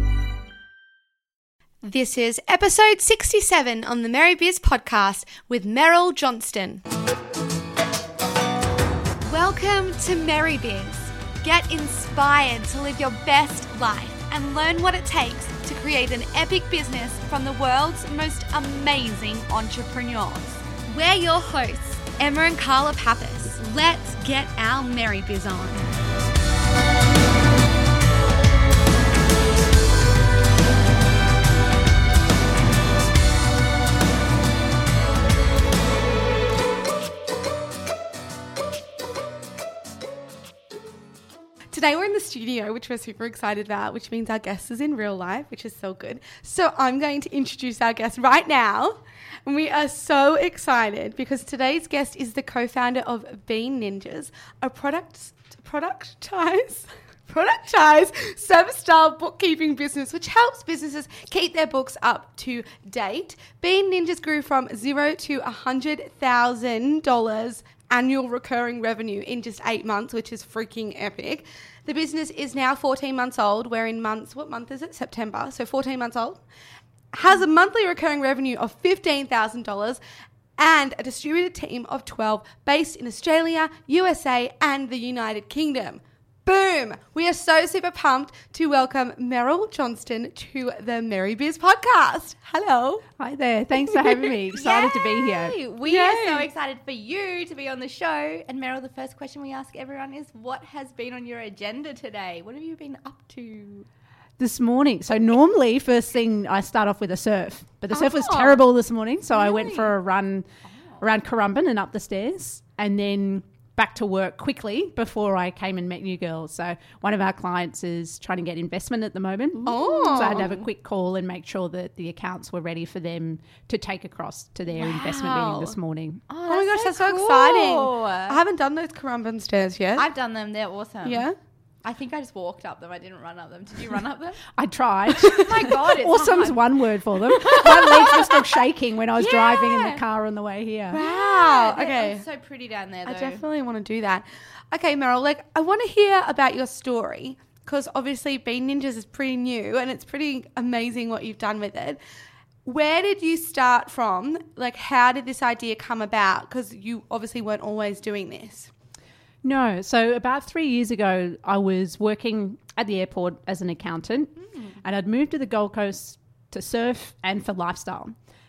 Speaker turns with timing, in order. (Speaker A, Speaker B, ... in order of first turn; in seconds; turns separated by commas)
Speaker A: 1.8-6.8, Speaker A: 9.2-25.8, Speaker A: 41.7-76.4, Speaker A: 77.1-80.0, Speaker A: 80.6-93.0, Speaker B: 93.2-95.5, Speaker A: 93.9-94.3, Speaker C: 94.5-103.9, Speaker A: 95.9-96.5, Speaker B: 104.4-110.5, Speaker A: 107.9-108.6, Speaker C: 109.3-109.9, Speaker B: 111.0-126.2, Speaker A: 119.6-120.5, Speaker C: 119.7-120.6, Speaker A: 124.7-125.8, Speaker C: 126.3-128.4, Speaker A: 126.5-130.1, Speaker C: 129.9-131.3, Speaker A: 131.0-131.4, Speaker C: 131.8-134.4, Speaker B: 134.5-141.0, Speaker C: 135.1-138.6, Speaker C: 139.1-140.0, Speaker A: 140.9-142.2, Speaker C: 140.9-143.4, Speaker A: 143.1-152.0, Speaker A: 152.6-158.7, Speaker B: 159.4-168.1